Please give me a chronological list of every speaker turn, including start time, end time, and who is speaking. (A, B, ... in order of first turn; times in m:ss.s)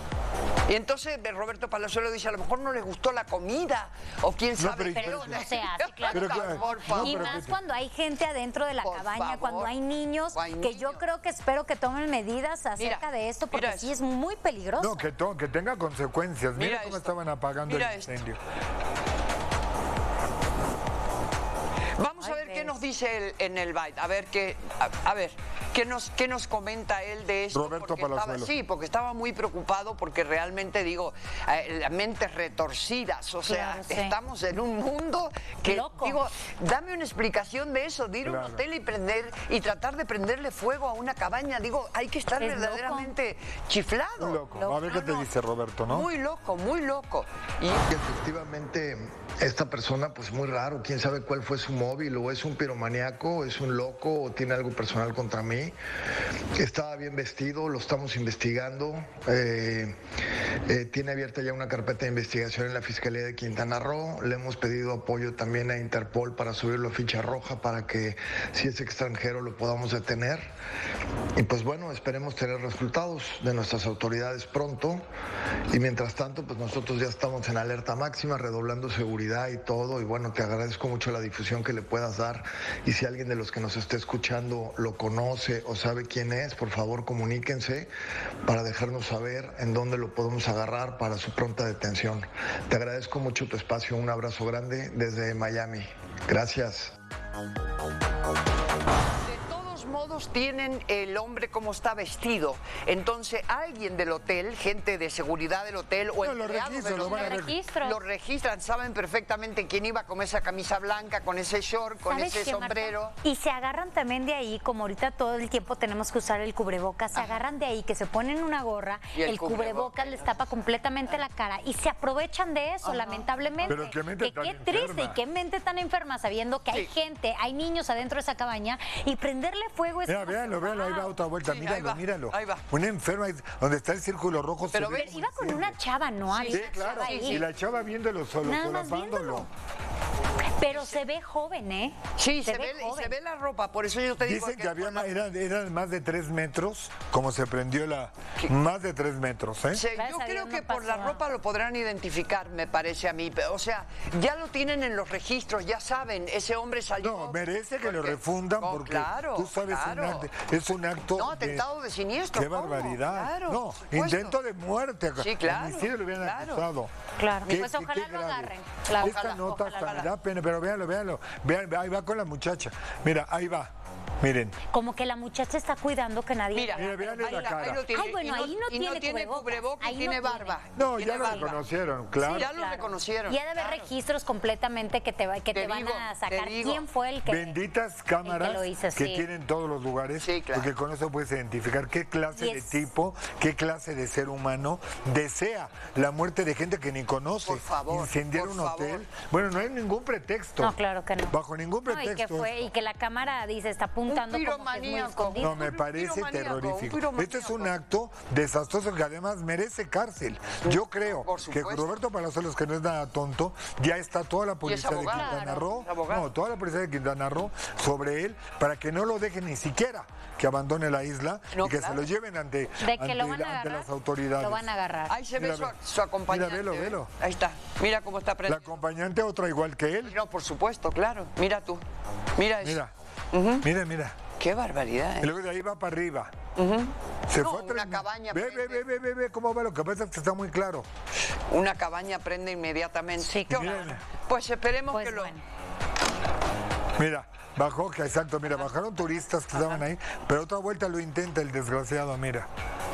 0:00.7-0:07.5 A
0:04.6-0:05.5 B
0:04.9-0:15.1 C
0:06.1-0:07.6 B
0:08.8-0:09.7 A
0:10.3-0:11.0 A
0:12.8-0:13.9 A
0:14.8-0:18.4 B
0:16.6-0:18.2 A
0:22.0-0:45.3 A
0:22.2-0:22.8 C
0:27.5-0:28.5 B
0:33.5-0:34.2 C
0:35.6-0:36.2 C
0:38.2-0:38.6 B
0:42.4-0:43.1 C
0:44.2-0:46.1 B
0:44.5-0:45.1 C
0:45.9-0:47.9 A
0:47.9-0:55.7 D
0:56.6-1:00.0 D
1:00.7-1:10.5 D
1:11.4-1:15.0 D
1:15.7-1:27.9 D
1:28.4-1:37.0 D
1:39.2-1:53.2 A
1:46.2-1:47.6 B
1:46.9-1:48.0 C
1:52.1-2:11.1 C
1:57.2-1:57.4 A
1:59.2-2:00.4 A
2:02.8-2:03.8 A
2:03.7-2:05.2 B
2:10.1-2:15.8 B
2:11.4-2:12.6 A
2:14.7-2:15.4 A
2:14.9-2:17.5 C
2:16.3-2:17.4 A
2:16.5-2:19.5 B
2:18.4-2:19.5 C
2:20.6-2:23.1 C
2:20.7-2:21.0 A
2:22.2-2:25.2 A
2:24.2-2:29.8 B
2:29.7-2:40.3 A
2:30.0-2:31.2 C
2:37.0-2:41.7 B
2:41.1-2:44.4 A
2:42.3-2:46.9 B
2:45.2-2:46.6 A
2:47.2-2:50.1 C
2:47.4-2:47.8 A
2:47.4-2:54.6 B
2:48.9-2:50.1 A
2:54.7-3:00.6 C
2:56.5-3:01.6 A
2:56.8-2:57.9 B
3:00.8-3:02.5 B
3:02.2-3:07.6 C
3:02.2-3:03.9 A
3:05.5-3:06.8 A
3:07.3-3:20.8 B
3:08.2-3:09.2 C
3:10.2-3:10.7 A
3:12.3-3:12.9 C
3:17.4-3:19.1 A
3:20.6-3:25.6 C
3:21.3-3:22.7 B
3:24.1-3:27.8 A
3:25.4-3:44.7 B
3:30.6-3:32.0 A
3:34.6-3:36.3 A
3:35.0-3:35.7 C
3:41.5-3:42.1 A
3:42.8-3:45.2 C
3:45.1-3:48.8 A
3:45.4-3:45.8 B
3:46.3-3:47.1 B
3:48.5-3:50.2 B
3:50.0-3:51.8 A
3:52.4-3:52.8 A
3:52.6-3:52.9 B
3:53.3-3:53.6 A
3:53.6-3:54.2 B
3:54.4-3:55.3 A
3:55.2-3:56.3 B
3:56.6-3:58.8 A
3:57.3-4:00.9 B
4:01.5-4:05.4 A
4:03.2-4:03.9 C
4:03.5-4:04.0 B
4:04.9-4:05.4 C
4:07.0-4:12.5 B
4:09.5-4:09.8 A